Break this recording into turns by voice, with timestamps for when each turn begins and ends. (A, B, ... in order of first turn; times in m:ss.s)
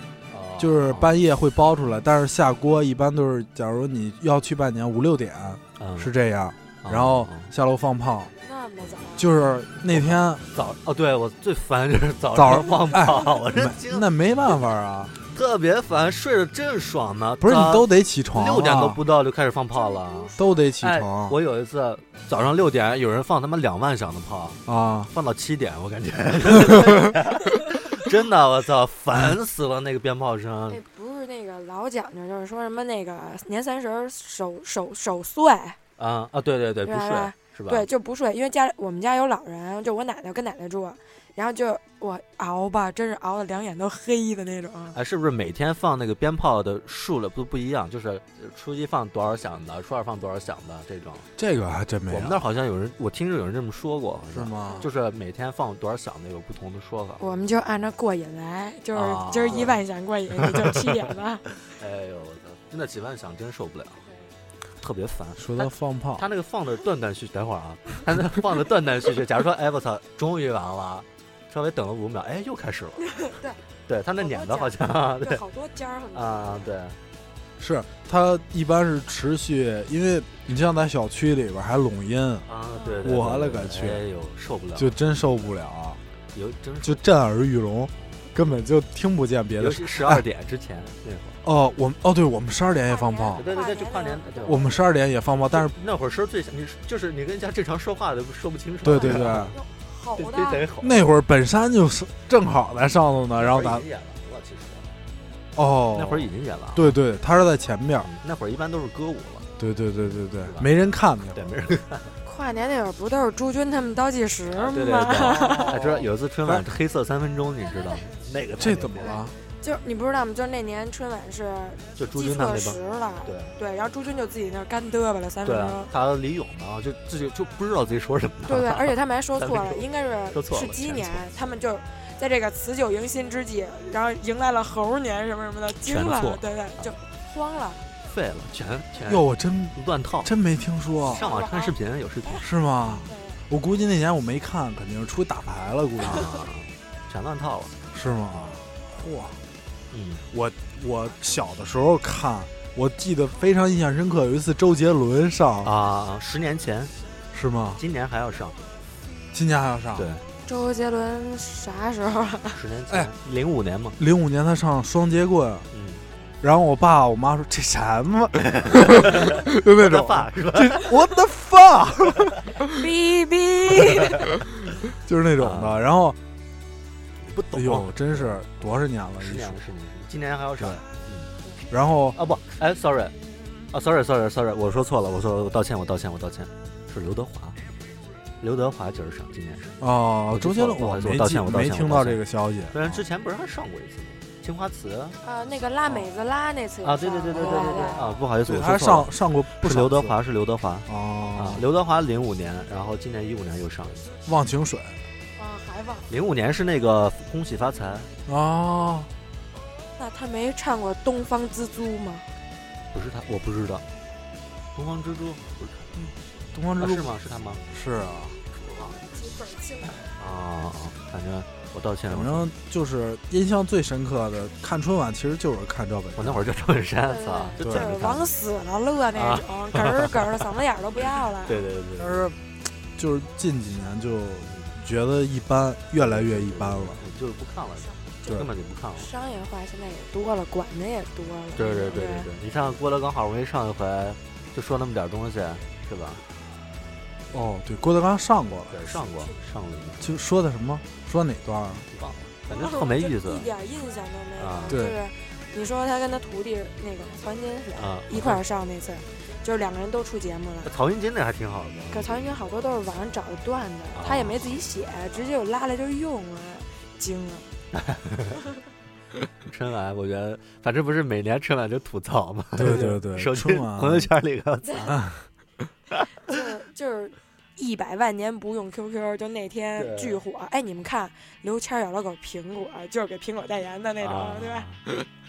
0:00.3-0:01.2 A
0:00.6-0:08.3 B
0:05.8-0:06.1 A
0:06.8-0:07.5 A
0:08.4-0:09.4 C
0:09.2-0:10.4 B
0:09.9-0:14.6 A
0:12.3-0:15.1 B
0:15.2-0:30.8 A
0:17.4-0:19.0 B
0:19.7-0:20.7 C
0:20.4-0:21.4 B
0:24.6-0:25.1 B
0:26.5-0:27.2 B
0:30.7-0:35.8 C
0:36.0-0:37.9 A
0:36.8-0:45.0 C
0:44.9-0:51.3 A
0:51.4-0:52.4 B
0:52.1-0:57.2 A
0:54.3-0:54.9 B
0:54.6-0:54.9 C
0:57.2-1:01.4 C
0:58.9-0:59.8 A
1:01.6-1:04.0 A
1:04.0-1:04.4 C
1:04.8-1:13.0 A
1:05.4-1:06.3 B
1:13.0-1:13.6 C
1:13.9-1:15.4 A
1:14.2-1:16.7 C
1:16.1-1:17.0 A
1:17.6-1:22.5 B
1:22.5-1:25.0 A
1:22.7-1:23.1 C
1:23.0-1:24.0 B
1:24.8-1:26.0 B
1:26.3-1:27.0 A
1:26.8-1:30.2 B
1:29.6-1:31.4 A
1:31.4-1:33.4 B
1:32.8-1:34.8 C
1:33.3-1:34.7 A
1:34.5-1:35.7 B
1:35.5-1:39.5 A
1:38.8-1:39.6 B
1:39.0-1:40.6 C
1:40.2-1:41.0 A
1:40.8-1:43.8 B
1:43.4-1:45.0 A
1:45.6-1:48.1 B
1:45.9-1:46.9 A
1:48.0-1:49.5 A
1:49.6-1:51.4 B
1:50.1-1:50.7 A
1:51.3-1:52.1 A
1:52.2-1:55.8 C
1:54.6-1:59.2 A
1:55.5-1:56.6 B
1:58.6-1:59.3 B
1:59.0-2:05.9 C
2:02.0-2:03.6 A
2:05.4-2:11.2 A
2:08.5-2:17.8 C
2:15.8-2:16.9 A
2:18.0-2:20.3 A
2:19.0-2:21.2 B
2:21.0-2:23.1 A
2:21.1-2:22.4 C
2:22.4-2:26.4 B
2:23.0-2:23.4 C
2:26.0-2:27.7 A
2:27.9-2:29.4 B
2:29.9-2:30.2 A
2:30.3-2:35.7 B
2:35.6-2:36.9 A
2:37.3-2:37.8 B
2:37.8-2:38.6 A
2:39.3-2:40.1 B
2:40.0-2:40.2 A
2:40.4-2:42.6 C
2:42.5-2:44.0 A
2:44.0-2:45.7 B
2:45.7-2:46.0 A
2:46.4-2:52.7 B
2:48.4-2:50.9 A
2:52.6-2:54.3 C
2:54.4-2:56.2 B
2:55.4-2:55.8 A
2:57.2-3:01.3 A
2:57.5-2:59.6 B
3:00.6-3:00.8 B
3:01.7-3:02.2 B
3:02.2-3:03.1 A
3:03.7-3:07.6 A
3:08.4-3:09.8 A
3:09.8-3:13.0 B
3:10.3-3:15.2 A
3:15.2-3:18.1 C
3:16.8-3:24.1 A
3:18.4-3:20.2 B
3:20.9-3:21.6 B
3:24.2-3:25.0 B
3:25.4-3:26.1 C
3:26.1-3:28.1 A
3:28.3-3:29.1 B
3:30.0-3:32.2 C
3:32.9-3:33.8 A
3:34.7-3:36.0 A
3:36.0-3:37.1 B
3:36.8-3:37.6 A
3:37.7-3:38.4 B
3:38.5-3:39.0 A
3:39.1-3:40.2 C
3:40.2-3:42.5 A
3:42.1-3:46.4 B
3:46.2-3:48.3 A
3:47.0-3:51.6 C
3:47.6-3:48.1 B
3:49.1-3:50.4 A
3:51.4-3:52.3 A
3:52.0-3:52.4 B
3:52.9-3:57.0 B
3:54.4-3:54.8 A
3:56.0-3:59.1 A
3:57.8-4:02.3 C
4:01.6-4:06.2 A
4:07.3-4:08.8 B
4:08.7-4:10.1 A
4:10.0-4:11.9 B
4:11.9-4:13.5 A
4:12.5-4:20.7 C
4:14.4-4:14.8 A
4:14.7-4:15.0 B
4:17.8-4:18.4 A
4:20.6-4:22.4 A
4:21.9-4:27.4 C
4:23.9-4:25.3 A
4:27.7-4:28.4 A
4:29.4-4:35.0 A
4:32.6-4:34.1 B
4:34.6-4:34.9 C
4:34.9-4:35.2 B
4:36.2-4:44.7 C
4:39.8-4:40.2 A
4:44.0-4:44.8 A